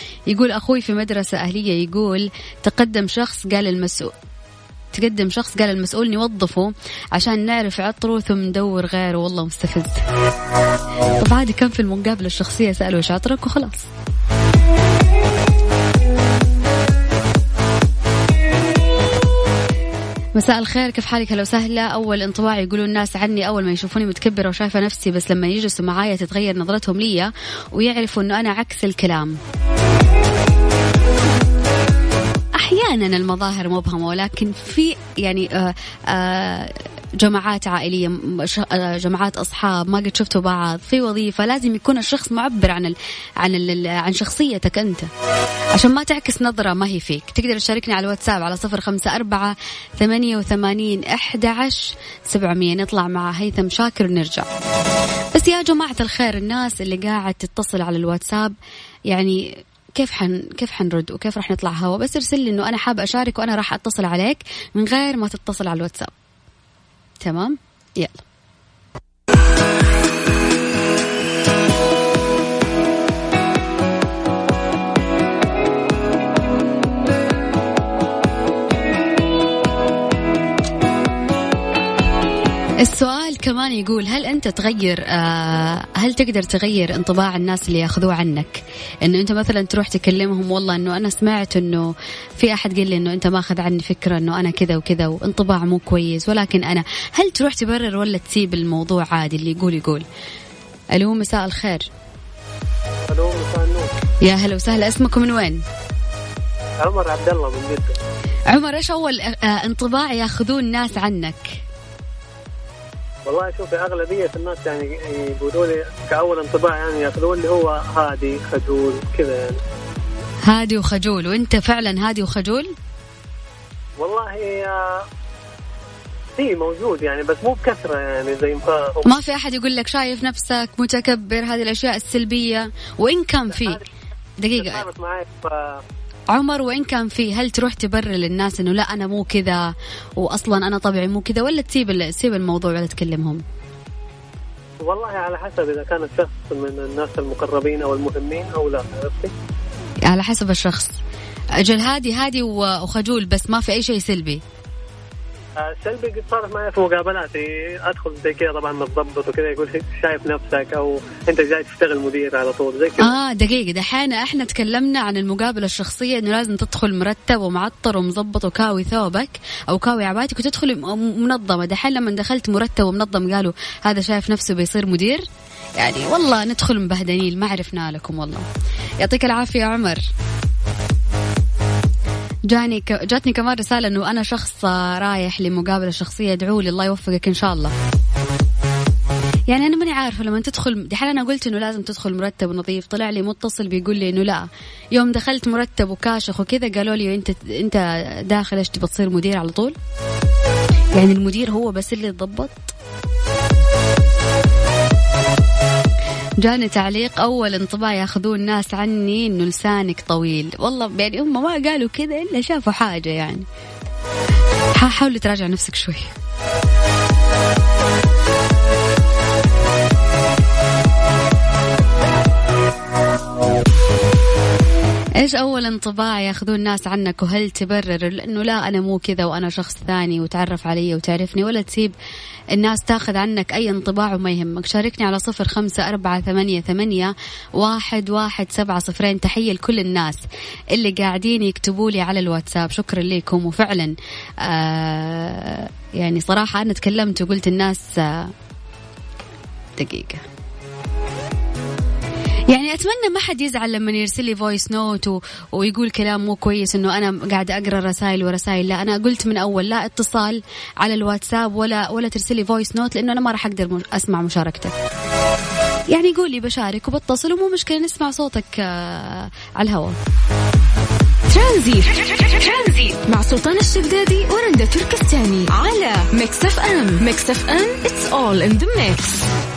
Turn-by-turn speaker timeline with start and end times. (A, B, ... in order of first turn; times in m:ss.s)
0:00.3-0:04.1 A
0:04.9-0:10.1 A
0:11.2-0:13.9 A
0:20.3-0:29.4 A
0:32.6-0:45.1 A
0:45.7-0:54.5 A
0:55.3-0:58.6 A
0:59.1-1:06.1 A
1:07.2-1:08.2 A
1:22.8-1:40.0 A
1:40.9-1:41.9 A
1:43.1-1:43.9 B
1:44.2-1:45.6 A
1:46.8-1:48.0 B
1:48.5-1:51.6 A
1:53.3-1:59.6 B
2:00.4-2:02.7 A
2:04.0-2:05.0 B
2:06.4-2:09.1 B
2:09.0-2:13.8 A
2:14.4-2:14.8 A
2:14.6-2:15.8 B
2:16.3-2:23.4 A
2:24.8-2:29.3 B
2:30.0-2:31.0 A
2:31.6-2:34.4 A
2:35.6-2:43.1 B
2:43.0-2:55.2 A
2:55.8-2:58.4 A
2:59.0-3:00.0 A
3:02.5-3:07.7 A
3:09.5-3:19.8 A
3:20.9-3:22.8 A
3:26.4-3:33.5 A
3:34.7-3:36.2 A
3:45.2-3:52.0 A
3:52.5-4:00.2 A
4:00.7-4:08.3 A
4:09.8-4:10.2 A
4:12.5-4:24.8 A
4:25.9-4:30.0 A
4:31.3-4:39.2 C